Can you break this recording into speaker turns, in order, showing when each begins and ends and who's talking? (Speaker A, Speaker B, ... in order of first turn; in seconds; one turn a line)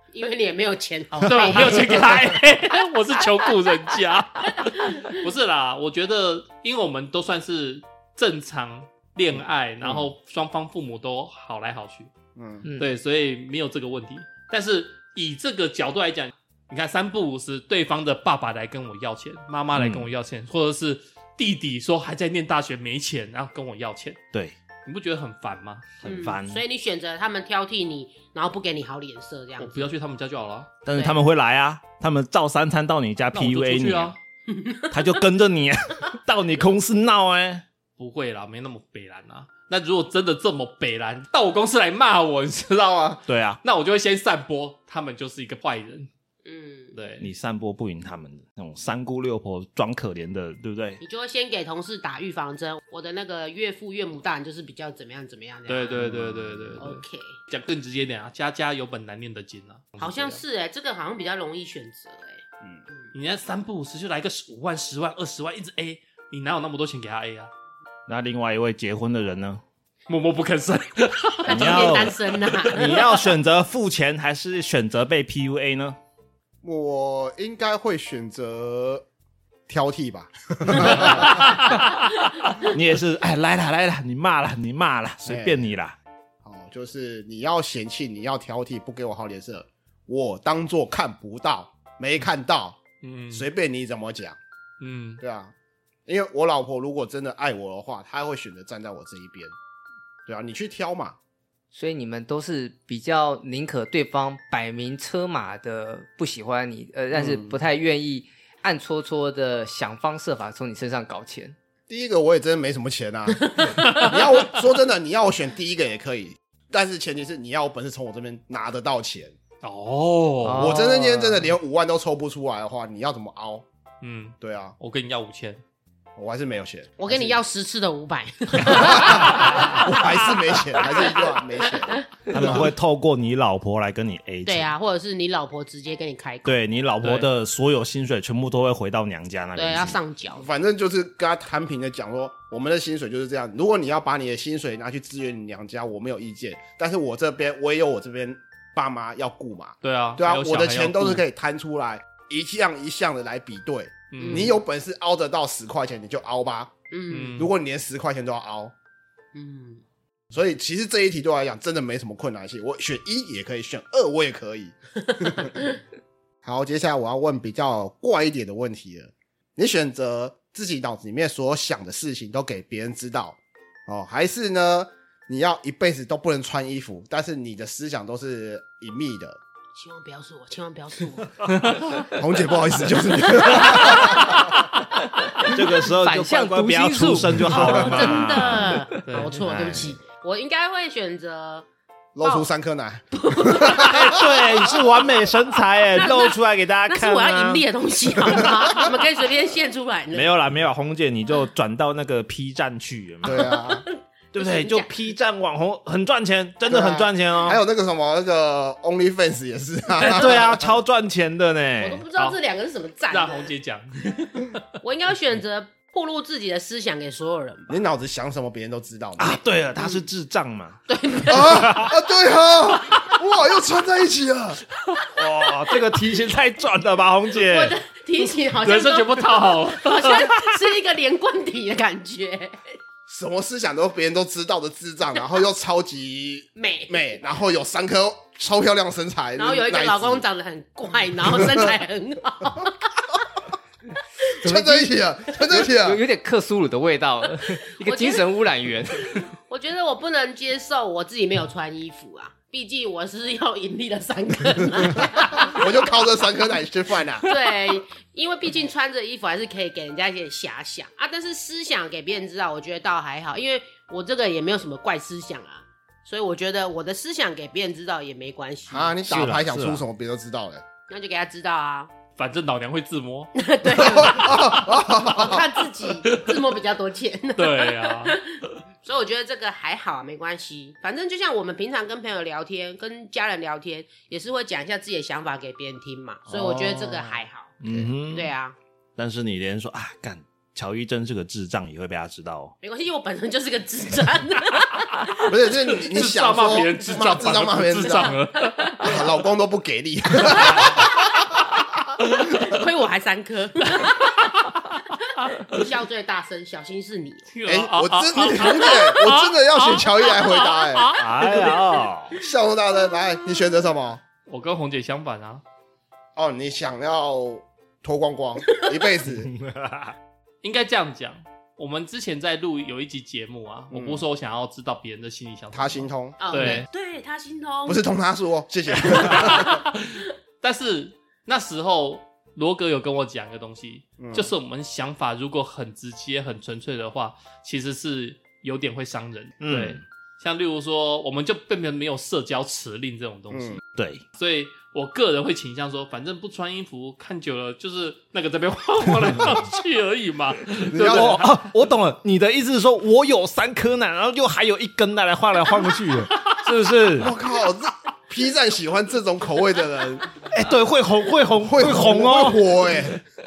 Speaker A: 0.1-2.3
Speaker B: 1.2-12.1
Speaker C: 9.8-10.1
Speaker C: 12.3-12.6
Speaker D: 12.6-12.9
Speaker B: 12.8-24.2
Speaker E: 19.7-20.1
Speaker B: 24.8-25.9
Speaker E: 26.0-26.6
Speaker A: 26.0-29.9
Speaker B: 29.6-30.7
Speaker E: 30.8-34.1
Speaker A: 30.9-31.2
Speaker B: 33.3-34.2
Speaker A: 34.5-35.1
Speaker E: 34.9-37.6
Speaker B: 38.0-46.1
Speaker E: 43.3-43.6
Speaker A: 46.4-47.0
Speaker B: 46.9-47.3
Speaker E: 47.2-51.0
Speaker A: 51.0-56.1
Speaker B: 55.7-60.4
Speaker C: 56.0-56.8
Speaker A: 56.8-57.4
Speaker A: 60.0-62.4
Speaker B: 63.1-67.5
Speaker E: 68.1-69.6
Speaker B: 70.1-73.0
Speaker A: 71.4-73.1
Speaker E: 71.5-72.2
Speaker E: 72.7-76.0
Speaker C: 76.6-79.0
Speaker C: 79.7-81.5
Speaker E: 82.6-86.0
Speaker C: 85.2-85.6
Speaker C: 86.4-92.8
Speaker B: 93.0-93.5
Speaker C: 93.3-94.4
Speaker B: 94.8-95.2
Speaker C: 95.2-95.5
Speaker C: 96.1-99.5
Speaker C: 100.3-101.2
Speaker D: 101.7-111.5
Speaker C: 107.1-107.5
Speaker C: 111.9-119.3
Speaker A: 113.6-114.1
Speaker B: 113.8-114.2
Speaker B: 119.6-120.7
Speaker D: 120.4-121.4
Speaker C: 120.5-123.6
Speaker B: 124.0-125.6
Speaker C: 124.4-124.8
Speaker C: 126.2-127.4
Speaker A: 127.0-130.2
Speaker C: 128.6-132.7
Speaker B: 129.0-129.8
Speaker A: 130.8-132.6
Speaker E: 132.3-134.7
Speaker A: 134.4-136.6
Speaker E: 136.4-140.0
Speaker A: 139.5-140.4
Speaker C: 140.3-156.7
Speaker B: 149.8-151.2
Speaker B: 154.1-154.5
Speaker A: 154.2-154.6
Speaker A: 156.9-157.4
Speaker B: 157.1-157.5
Speaker C: 157.4-158.7
Speaker A: 159.3-159.8
Speaker C: 160.3-165.5
Speaker A: 165.4-165.7
Speaker C: 166.4-179.4
Speaker A: 179.7-182.0
Speaker C: 182.0-184.4
Speaker A: 183.2-184.4
Speaker D: 185.2-187.9
Speaker E: 185.5-189.0
Speaker A: 187.6-191.7
Speaker B: 189.0-189.7
Speaker E: 189.5-189.9
Speaker C: 192.1-194.2
Speaker A: 192.2-192.5
Speaker A: 193.2-194.4
Speaker E: 193.8-197.6
Speaker A: 195.9-196.3
Speaker A: 196.9-200.3
Speaker E: 200.1-203.5
Speaker C: 203.2-203.8
Speaker A: 203.3-204.9
Speaker E: 204.3-207.6
Speaker C: 206.7-210.8
Speaker E: 210.0-212.0
Speaker A: 211.8-213.5
Speaker B: 213.1-214.6
Speaker A: 214.8-217.8
Speaker C: 217.7-219.4
Speaker E: 219.2-220.8
Speaker A: 220.9-221.9
Speaker C: 221.3-224.6
Speaker E: 225.1-227.8
Speaker A: 227.3-232.7
Speaker B: 228.6-230.3
Speaker C: 233.1-240.2
Speaker A: 236.6-237.1
Speaker A: 239.4-243.2
Speaker C: 241.3-241.6
Speaker D: 244.4-245.0
Speaker C: 244.4-246.0
Speaker D: 245.5-249.3
Speaker A: 247.8-248.2
Speaker A: 249.5-255.9
Speaker C: 255.4-257.2
Speaker A: 257.2-269.3
Speaker C: 268.7-270.6
Speaker E: 269.1-269.8
Speaker A: 270.9-271.9
Speaker B: 272.1-273.3
Speaker A: 273.4-278.2
Speaker C: 273.6-275.4
Speaker B: 276.0-276.4
Speaker B: 277.4-278.2
Speaker A: 278.8-287.6
Speaker C: 286.3-287.9
Speaker E: 287.6-288.3
Speaker A: 288.1-288.6
Speaker E: 288.9-292.5
Speaker A: 292.6-295.3
Speaker C: 295.3-298.2
Speaker B: 295.8-298.9
Speaker C: 298.8-301.0
Speaker A: 300.4-300.8
Speaker A: 302.0-304.3
Speaker B: 303.9-304.5
Speaker B: 305.2-305.6
Speaker A: 305.5-307.3
Speaker B: 307.3-311.6
Speaker C: 307.4-310.9
Speaker E: 310.9-312.1
Speaker C: 312.1-314.0
Speaker B: 314.3-315.4
Speaker C: 316.1-319.3
Speaker E: 319.2-319.9
Speaker B: 320.4-326.7
Speaker C: 323.7-324.0
Speaker C: 325.5-326.6
Speaker A: 326.2-327.8
Speaker C: 327.6-329.6
Speaker A: 329.0-329.5
Speaker B: 329.1-343.6
Speaker C: 334.0-334.3
Speaker E: 339.4-339.8
Speaker C: 343.3-343.6
Speaker E: 343.7-344.0
Speaker B: 344.1-351.3
Speaker C: 350.7-351.2
Speaker E: 350.8-357.1
Speaker C: 356.9-360.2
Speaker E: 360.3-362.8
Speaker C: 361.4-363.0